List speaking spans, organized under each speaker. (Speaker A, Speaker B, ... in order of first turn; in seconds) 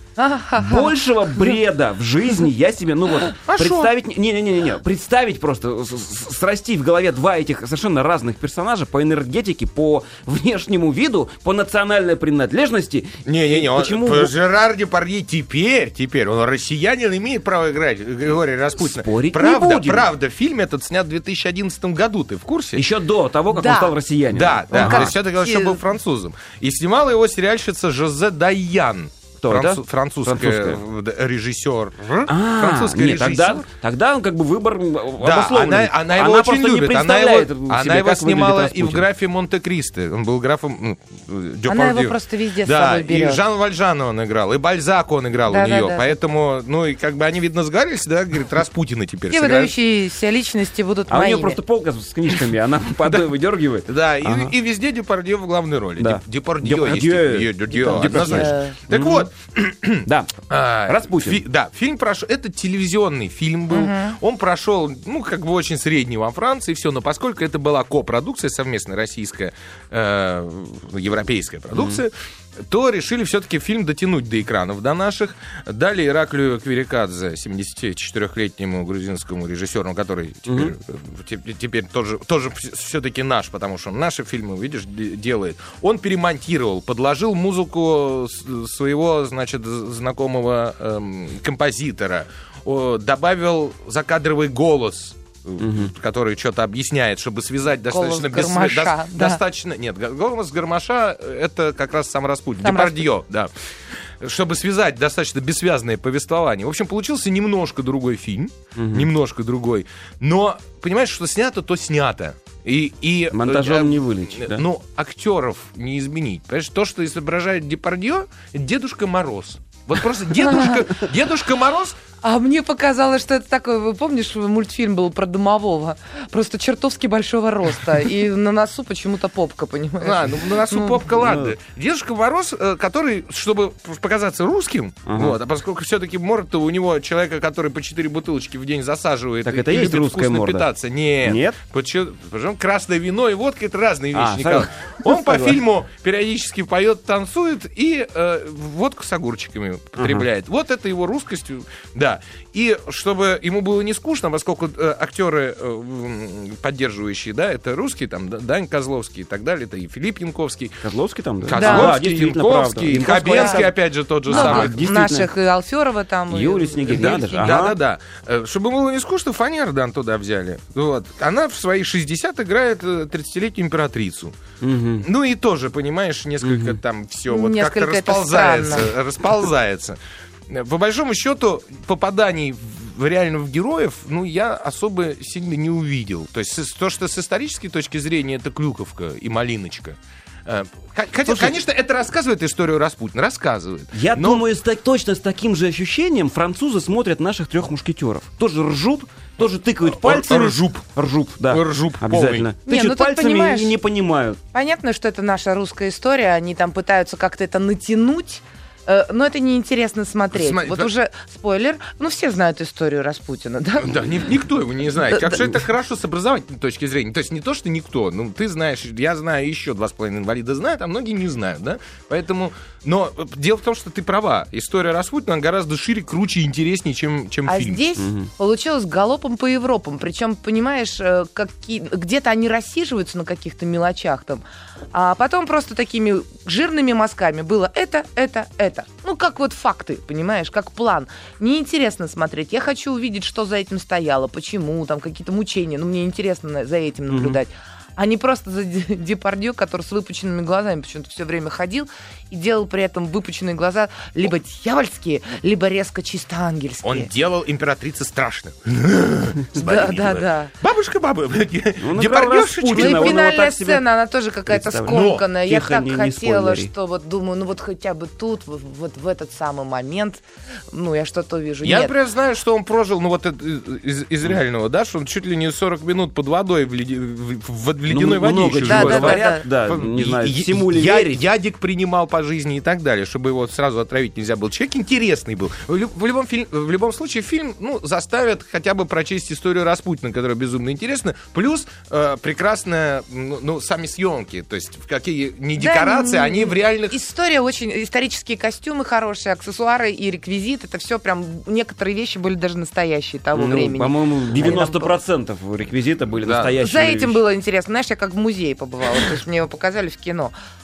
Speaker A: 0.2-1.5, 23.5-24.0, 24.7-25.8, 41.7-43.4, 45.5-46.1, 49.3-51.6, 57.7-58.8, 63.7-64.2, 97.9-99.4, 102.6-103.1, 120.4-120.9, 122.2-131.1, 161.5-161.9, 163.0-163.7, 164.3-167.6, 177.3-178.9, 202.7-203.8, 204.5-214.1, 215.1-215.5, 227.5-257.1, 259.5-260.5, 262.7-271.9, 278.7-279.4, 295.6-305.0, 306.6-310.3
Speaker B: 0.6-14.3, 18.8-20.1, 22.7-25.1, 29.4-30.8, 32.3-39.0, 51.1-54.5, 56.0-59.3, 60.0-61.4, 71.7-72.0, 80.5-80.7, 95.6-95.9, 108.7-109.1, 113.3-114.6, 131.2-131.5, 135.0-135.4, 139.4-140.7, 141.2-141.6, 144.1-145.6, 150.0-150.2, 160.8-163.8, 164.3-165.3, 166.3-167.8, 174.6-175.1, 176.4-176.8, 191.2-191.6, 193.9-204.4, 228.0-228.3, 247.1-247.4, 261.8-263.8, 264.5-266.7, 277.9-281.2, 303.3-307.2
Speaker C: 3.4-3.9, 13.2-22.8, 24.3-33.6, 35.2-49.7, 53.0-53.3, 53.9-103.5, 104.2-122.0, 130.0-160.8, 161.4-164.8, 166.9-174.3, 175.0-194.4, 199.8-200.9, 201.5-202.5, 210.3-210.9, 213.8-227.8, 256.8-263.3, 264.9-265.3, 271.6-297.0, 306.2-306.6